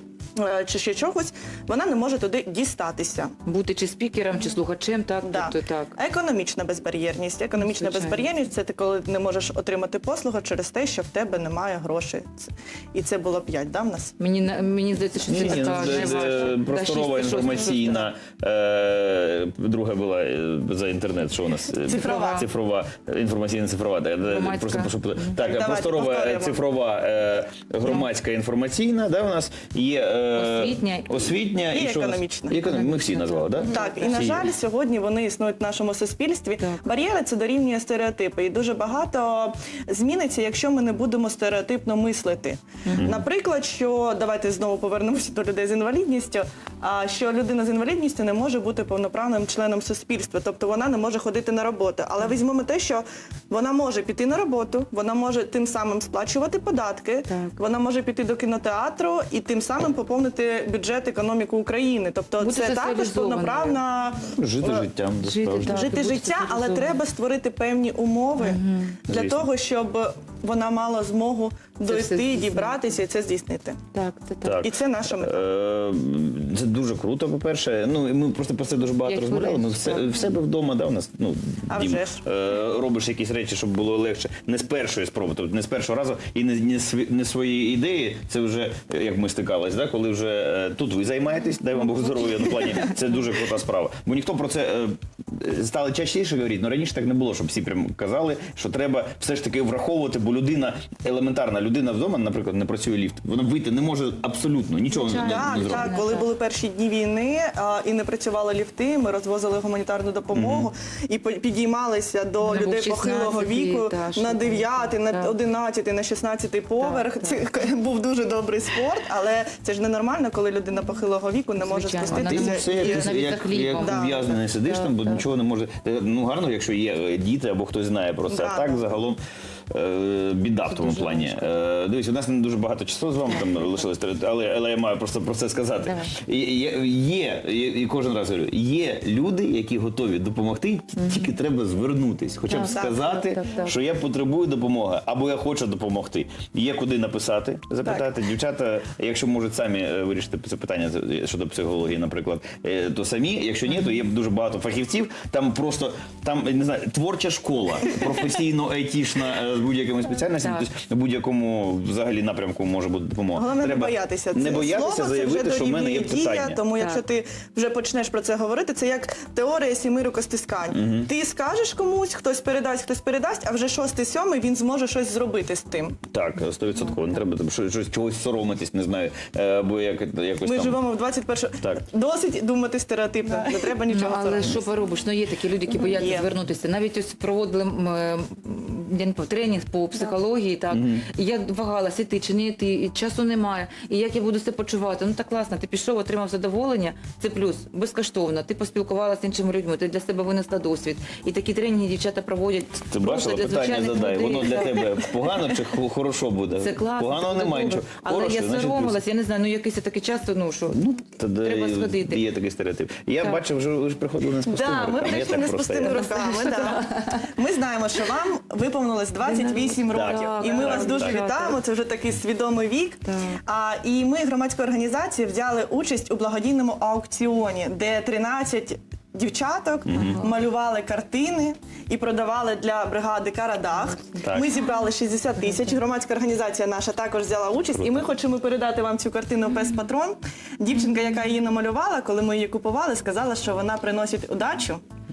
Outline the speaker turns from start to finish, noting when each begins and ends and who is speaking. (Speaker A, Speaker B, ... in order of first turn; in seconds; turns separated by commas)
Speaker A: 0.4-3.3, Speaker B: 3.5-5.9, Speaker A: 5.2-14.1, Speaker B: 7.6-8.2, Speaker B: 14.2-18.1, Speaker C: 15.3-34.4, Speaker A: 15.4-16.3, Speaker A: 21.8-22.4, Speaker B: 22.0-22.4, Speaker B: 24.3-25.4, Speaker A: 25.4-26.6, Speaker B: 30.3-31.3, Speaker A: 31.7-32.6, Speaker B: 32.6-34.2, Speaker A: 33.7-64.9, Speaker C: 43.0-43.2, Speaker B: 57.3-57.5, Speaker B: 62.4-63.8, Speaker C: 64.3-65.8, Speaker B: 65.2-67.0, Speaker A: 65.6-73.8, Speaker B: 68.4-69.0, Speaker C: 69.1-69.5, Speaker B: 71.9-72.8, Speaker B: 73.9-74.6, Speaker C: 74.4-106.0, Speaker A: 74.6-75.4, Speaker B: 79.0-80.2, Speaker A: 81.7-82.2, Speaker B: 104.9-106.3, Speaker A: 105.1-123.1, Speaker C: 110.3-110.7, Speaker B: 112.4-115.3, Speaker B: 116.8-117.4, Speaker B: 121.6-125.2, Speaker C: 122.0-129.2, Speaker A: 123.7-124.2, Speaker A: 128.3-128.8, Speaker C: 129.7-166.6, Speaker B: 130.7-131.6, Speaker B: 133.3-133.8, Speaker B: 135.8-136.1, Speaker B: 141.0-141.3, Speaker B: 142.5-143.7, Speaker A: 142.7-143.1, Speaker B: 160.4-160.7, Speaker A: 163.3-176.0, Speaker B: 166.8-167.0, Speaker C: 170.7-171.1, Speaker C: 176.1-180.8, Speaker A: 180.4-184.7, Speaker B: 183.6-205.0, Speaker A: 185.7-186.3, Speaker C: 190.7-191.0, Speaker C: 202.9-209.0, Speaker B: 206.6-210.8, Speaker C: 210.7-216.1, Speaker B: 211.4-212.2, Speaker A: 214.4-244.8, Speaker B: 215.8-217.2, Speaker B: 219.2-221.6, Speaker C: 219.9-221.2, Speaker B: 223.0-223.4, Speaker C: 229.9-230.2, Speaker B: 229.9-230.3, Speaker C: 234.2-234.5, Speaker C: 237.7-238.1